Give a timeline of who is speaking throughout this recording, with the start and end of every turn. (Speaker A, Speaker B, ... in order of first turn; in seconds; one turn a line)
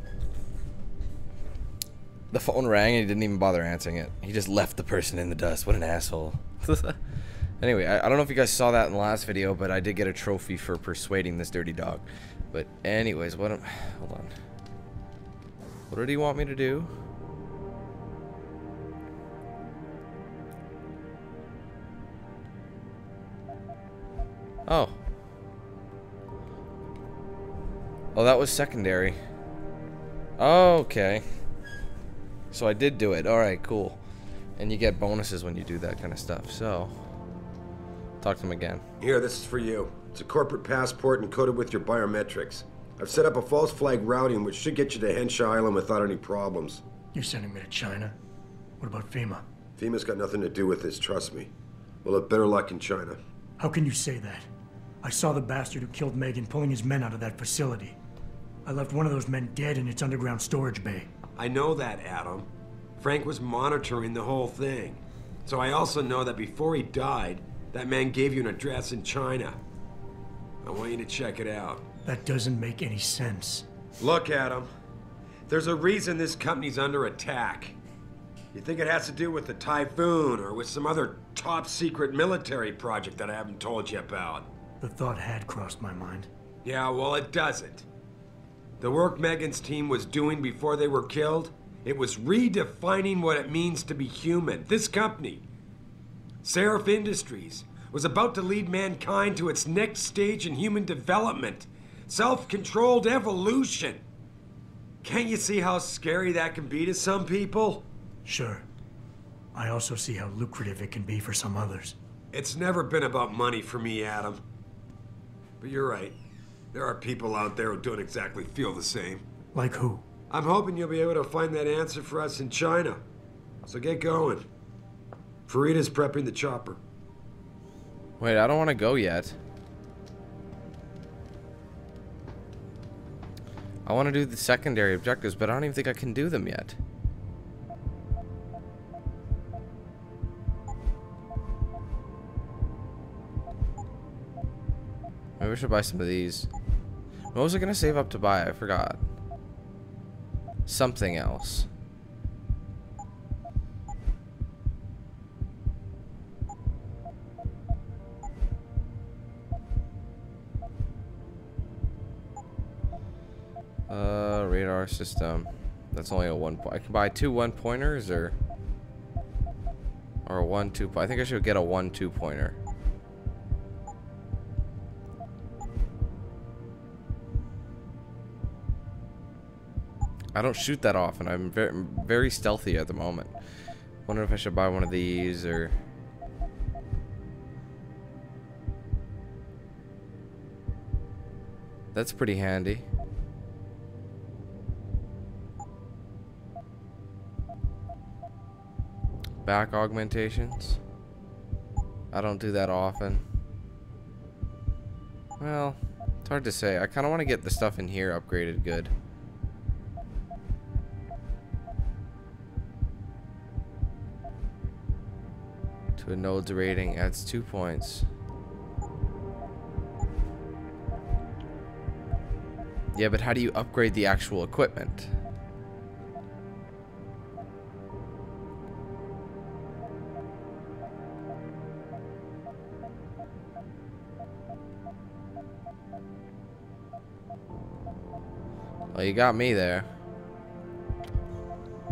Speaker A: 2.3-7.0
Speaker A: 7.6-14.3
Speaker A: 15.9-16.9
Speaker A: 24.7-24.9
Speaker A: 28.1-29.2
Speaker A: 30.4-31.2
Speaker A: 32.5-34.0
Speaker A: 34.6-36.9
Speaker A: 38.2-38.8
Speaker B: 39.0-46.8
Speaker C: 47.2-48.1
Speaker C: 49.0-49.4
Speaker B: 49.8-51.5
Speaker B: 52.0-53.2
Speaker C: 53.7-54.5
Speaker C: 55.1-58.0
Speaker C: 58.7-61.1
Speaker B: 61.4-69.6
Speaker B: 70.6-71.8
Speaker C: 72.2-73.7
Speaker B: 74.0-74.7
Speaker B: 75.5-77.8
Speaker B: 78.5-84.5
Speaker C: 84.8-86.3
Speaker B: 86.6-87.9
Speaker B: 88.8-95.5
Speaker B: 96.4-104.0
Speaker B: 105.0-107.9
Speaker C: 108.3-108.6
Speaker C: 109.6-112.0
Speaker B: 112.3-114.4
Speaker B: 115.6-116.2
Speaker B: 116.7-119.2
Speaker C: 119.5-120.0
Speaker B: 120.3-123.0
Speaker B: 123.7-124.5
Speaker B: 125.5-126.8
Speaker A: 128.2-129.4
Speaker A: 133.9-136.8
Speaker A: 145.4-146.5
Speaker A: 147.3-149.0
Speaker A: 150.7-151.7
Speaker A: 163.9-168.3
Speaker A: 170.3-172.6
Speaker A: 180.3-183.3
Speaker A: 184.1-185.8
Speaker A: 191.9-192.9
Speaker A: 199.4-200.8
Speaker A: 202.1-203.2
Speaker A: 205.4-208.9
Speaker A: 216.0-218.1
Speaker A: 222.9-225.1
Speaker A: 238.9-239.9